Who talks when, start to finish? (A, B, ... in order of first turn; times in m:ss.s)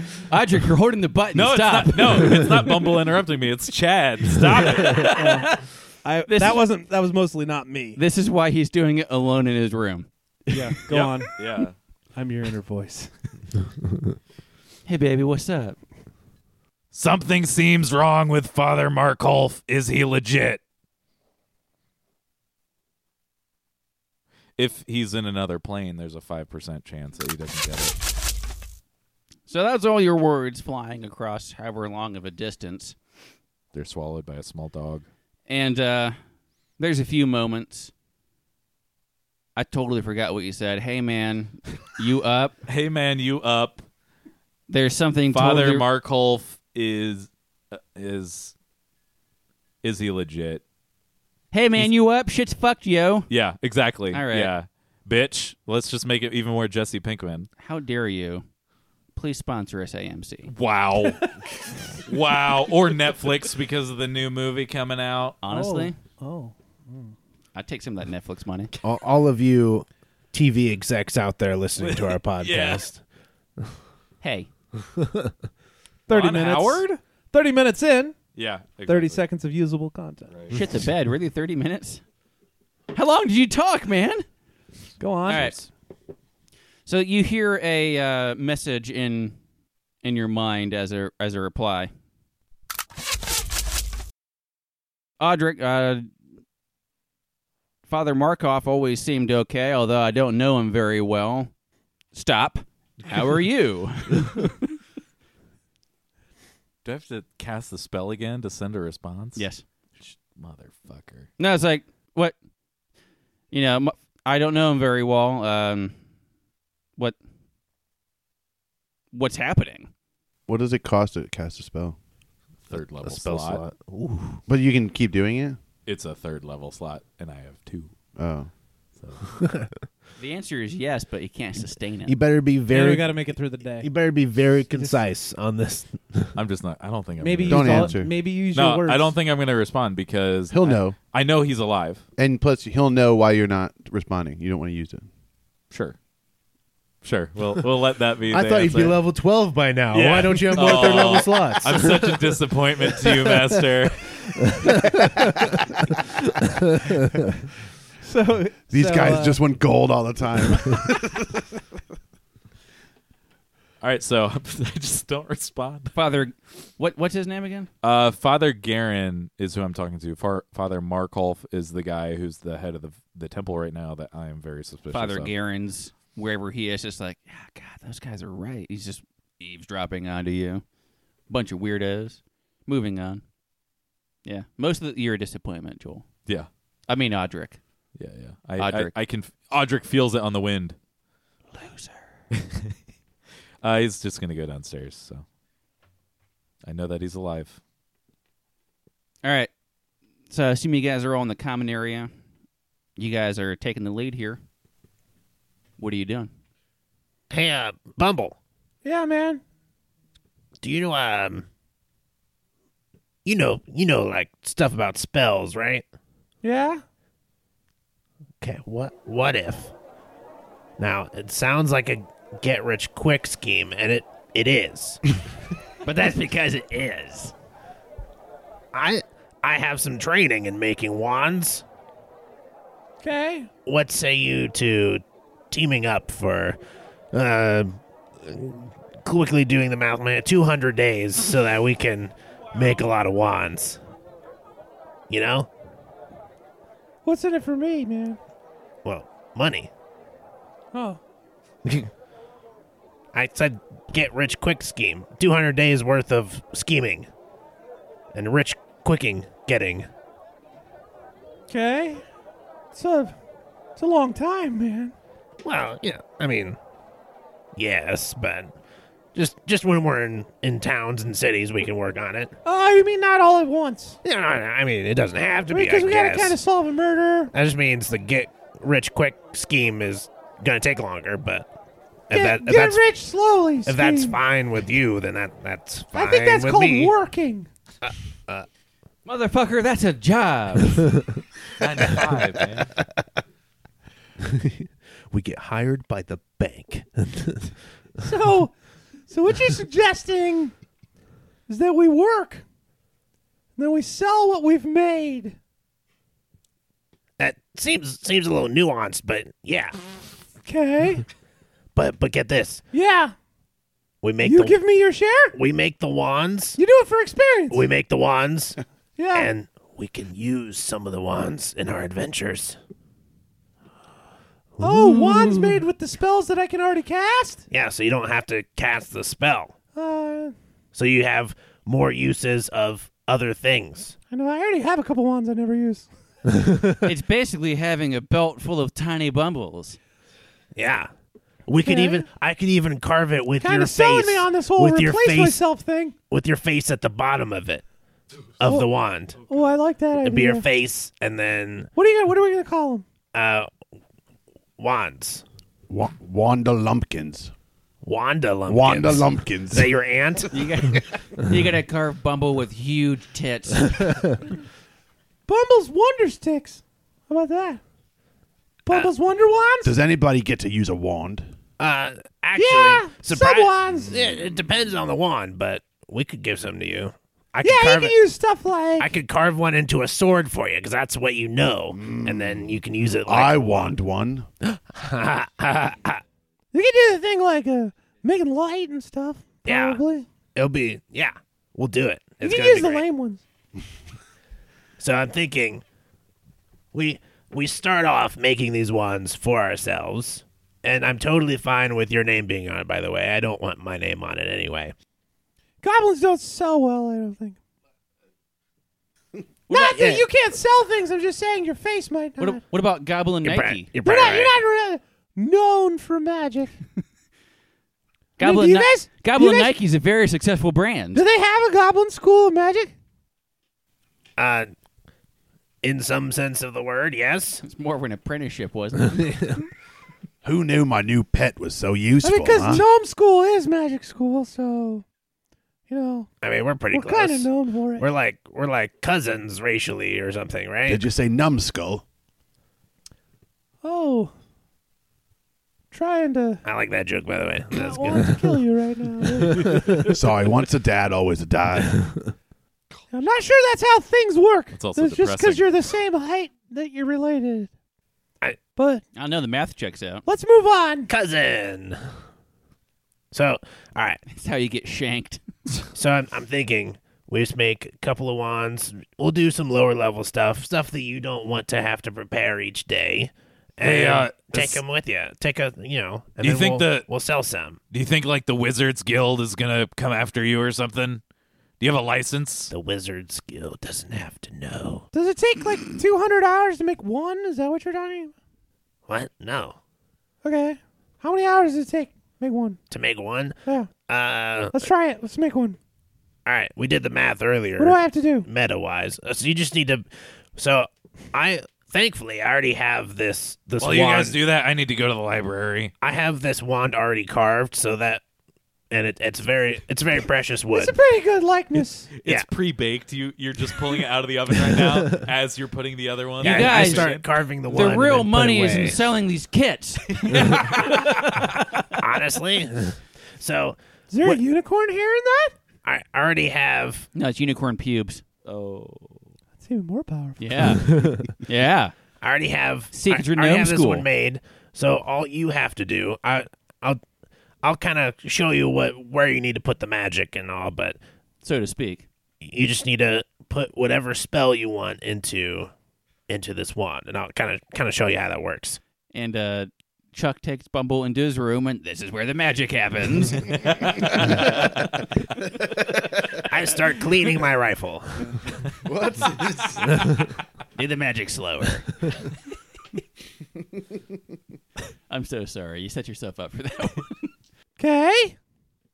0:00.2-0:02.6 A
0:01.3-0:05.2 B
0:04.6-0:05.6 A
0:04.9-0:08.0 C
0:06.3-0:06.6 A
0:08.0-0:10.7 A
0:10.5-0:11.6 C
0:10.9-0:11.7 B
0:12.1-0:13.1 C
0:14.8-0:15.8 A
0:16.9-0:20.6 B
0:24.6-0:28.0 B
0:29.5-0:33.0 A
0:33.7-0:35.0 B
0:35.5-0:36.2 A
0:36.8-0:37.9 A
0:39.6-0:42.6 A
0:42.7-0:43.8 B
0:44.7-0:45.8 A
0:45.3-0:48.5 B
0:49.8-0:50.6 B
0:51.5-0:53.3 A
0:53.3-0:57.5 B
0:54.1-0:54.5 A
0:57.6-0:58.4 A
0:59.1-1:00.5 A
1:00.5-1:01.3 B
1:01.0-1:01.4 C
1:02.0-1:05.4 B
1:05.4-1:06.0 A
1:05.5-1:07.1 C
1:07.5-1:08.7 A
1:08.8-1:13.0 D
1:11.8-1:12.8 B
1:14.2-1:14.5 A
1:16.1-1:18.2 C
1:16.1-1:16.8 B
1:18.3-1:19.2 B
1:18.8-1:20.3 C
1:20.3-1:20.6 B
1:20.5-1:22.0 A
1:22.9-1:24.2 A
1:25.0-1:25.6 C
1:25.3-1:25.6 A
1:26.8-1:29.4 A
1:30.0-1:31.9 A
1:35.2-1:36.1 A
1:37.9-1:41.5 A
1:42.1-1:44.6 A
1:46.8-1:49.4 B
1:49.4-1:49.6 A
1:50.0-1:51.3 B
1:51.4-1:52.3 A
1:53.5-1:55.9 A
1:59.1-1:59.9 A
2:00.5-2:02.0 E
2:02.7-2:03.6 B
2:03.0-2:04.4 D
2:04.5-2:05.6 E
2:05.8-2:08.0 B
2:08.2-2:08.5 E
2:09.0-2:09.2 B
2:10.2-2:12.1 A
2:12.1-2:16.4 D
2:12.7-2:13.9 C
2:14.7-2:15.0 C
2:16.3-2:22.0 B
2:17.2-2:19.2 C
2:17.5-2:18.1 E
2:20.5-2:21.0 E
2:22.2-2:25.0 E
2:25.7-2:26.0 B
2:27.0-2:29.0 B
2:28.3-2:32.2 D
2:29.9-2:34.7 B
2:38.0-2:39.4 C
2:38.7-2:41.4 E
2:43.8-2:45.9 B
2:45.9-2:47.7 A
2:47.8-2:55.3 B
2:54.9-3:00.6 A
3:01.3-3:03.2 A
3:04.2-3:06.1 A
3:06.9-3:07.6 A
3:07.9-3:10.8 B
3:08.6-3:08.9 A
3:11.5-3:12.0 A
3:12.3-3:12.7 B
3:13.6-3:15.2 B
3:16.6-3:17.6 B
3:19.2-3:19.5 A
3:20.3-3:22.1 A
3:23.0-3:24.4 A
3:25.8-3:26.3 A
3:27.3-3:28.4 D
3:28.8-3:29.4 C
3:30.6-3:31.4 D
3:33.2-3:35.8 D
3:36.4-3:36.8 C
3:38.4-3:39.7 D
3:40.8-3:45.0 D
3:45.8-3:47.3 A
3:48.7-3:51.6 D
3:53.0-3:53.5 C
3:53.6-3:56.6 D
3:57.1-4:03.8 D
4:05.1-4:05.5 D
4:07.0-4:08.2 C
4:08.8-4:09.7 D
4:10.7-4:11.0 C
4:11.6-4:11.9 D
4:13.1-4:17.1 D
4:18.1-4:19.9 D
4:21.5-4:22.0 C
4:22.7-4:23.1 C
4:23.8-4:24.9 C
4:25.4-4:26.6 D
4:27.6-4:28.5 D
4:29.1-4:32.3 D
4:32.4-4:34.0 C
4:34.0-4:36.4 D
4:35.5-4:37.3 C
4:37.3-4:41.5 D
4:42.1-4:42.8 D
4:42.1-4:44.2 C
4:43.6-4:46.9 D
4:45.9-4:47.5 C
4:47.8-4:48.5 D
4:49.0-4:51.0 A
4:51.6-4:52.7 B
4:54.3-4:57.5 D
4:58.0-4:58.5 C
4:59.1-5:00.5 C
5:01.5-5:02.4 C
5:03.6-5:05.4 C
5:07.2-5:09.8 D
5:10.4-5:11.0 C
5:11.7-5:12.6 D
5:12.7-5:13.1 C
5:14.0-5:14.6 D
5:14.2-5:15.4 C
5:15.3-5:16.6 D
5:16.6-5:17.6 C
5:17.5-5:18.6 D
5:19.0-5:19.3 C
5:19.1-5:22.6 D
5:24.6-5:25.5 D
5:24.6-5:27.4 C
5:27.5-5:29.5 D
5:29.7-5:30.3 C
5:30.7-5:34.0 D
5:34.1-5:36.8 C
5:36.8-5:39.8 A
5:40.5-5:40.9 D
5:41.5-5:45.4 D
5:41.6-5:42.1 C
5:43.4-5:45.9 C
5:46.1-5:47.6 D
5:48.4-5:49.2 D
5:49.2-5:50.4 C
5:50.0-5:51.7 D
5:51.7-5:52.8 C
5:53.1-5:53.5 D
5:54.6-5:55.2 D
5:55.7-5:57.3 E
5:57.8-6:00.5 D
5:58.5-5:59.8 E
6:00.3-6:04.2 A
6:05.3-6:07.6 C
6:08.6-6:09.7 C
6:09.6-6:11.3 E
6:11.6-6:18.0 D
6:12.4-6:13.9 C
6:17.4-6:18.9 C
6:18.8-6:23.7 D
6:21.7-6:24.3 E
6:24.4-6:26.0 D
6:26.5-6:30.1 C
6:29.4-6:29.8 D
6:30.3-6:32.8 D
6:32.2-6:33.2 C
6:34.8-6:35.6 D
6:36.7-6:44.7 D
6:45.6-6:47.4 C
6:49.5-6:52.4 C
6:49.5-6:49.9 A
6:49.5-6:50.0 D
6:52.2-6:53.7 A
6:53.2-6:54.3 D
6:53.8-6:56.5 C
6:58.2-7:01.0 A
6:58.2-6:59.5 C
7:00.9-7:02.7 C
7:04.2-7:04.5 D
7:05.6-7:07.4 D
7:07.4-7:09.4 A
7:10.2-7:12.6 E
7:12.0-7:14.8 C
7:15.7-7:16.1 C
7:16.2-7:20.8 D
7:16.7-7:17.8 C
7:20.7-7:21.8 E
7:23.6-7:24.1 C
7:25.7-7:26.4 C
7:26.4-7:28.2 D
7:27.5-7:29.8 C
7:29.4-7:32.0 E
7:32.9-7:37.5 C
7:34.5-7:35.5 B
7:38.6-7:38.8 C
7:38.9-7:40.0 A
7:40.0-7:40.9 C
7:40.9-7:41.8 D
7:43.1-7:44.0 D
7:44.1-7:45.7 A
7:45.7-7:57.6 D
7:53.6-7:54.6 B
7:56.2-7:56.9 B
7:57.7-8:01.0 B
8:01.6-8:02.5 B
8:02.5-8:04.8 D
8:04.9-8:08.1 C
8:08.9-8:09.6 D
8:10.2-8:12.6 C
8:12.7-8:14.6 D
8:13.4-8:13.7 C
8:14.5-8:15.6 C
8:16.2-8:24.2 D
8:17.6-8:18.3 C
8:23.6-8:25.7 B
8:25.8-8:28.0 D
8:28.7-8:30.7 D
8:30.5-8:31.9 C
8:32.0-8:37.1 B
8:36.2-8:36.9 A
8:36.2-8:38.8 D
8:37.5-8:41.3 A
8:40.1-8:40.8 B
8:41.8-8:44.2 D
8:43.9-8:45.3 C
8:45.6-8:46.9 D
8:46.9-8:48.0 A
8:48.2-8:49.1 B
8:49.4-8:51.0 C
8:50.2-8:51.7 A
8:52.0-8:56.8 D
8:52.7-8:53.9 A
8:57.4-9:00.8 D
9:01.2-9:01.8 A
9:02.2-9:05.5 D
9:06.1-9:08.6 D
9:08.9-9:14.8 A
9:16.2-9:18.2 D
9:18.5-9:20.0 E
9:20.6-9:21.9 A
9:24.9-9:27.1 A
9:27.6-9:28.2 C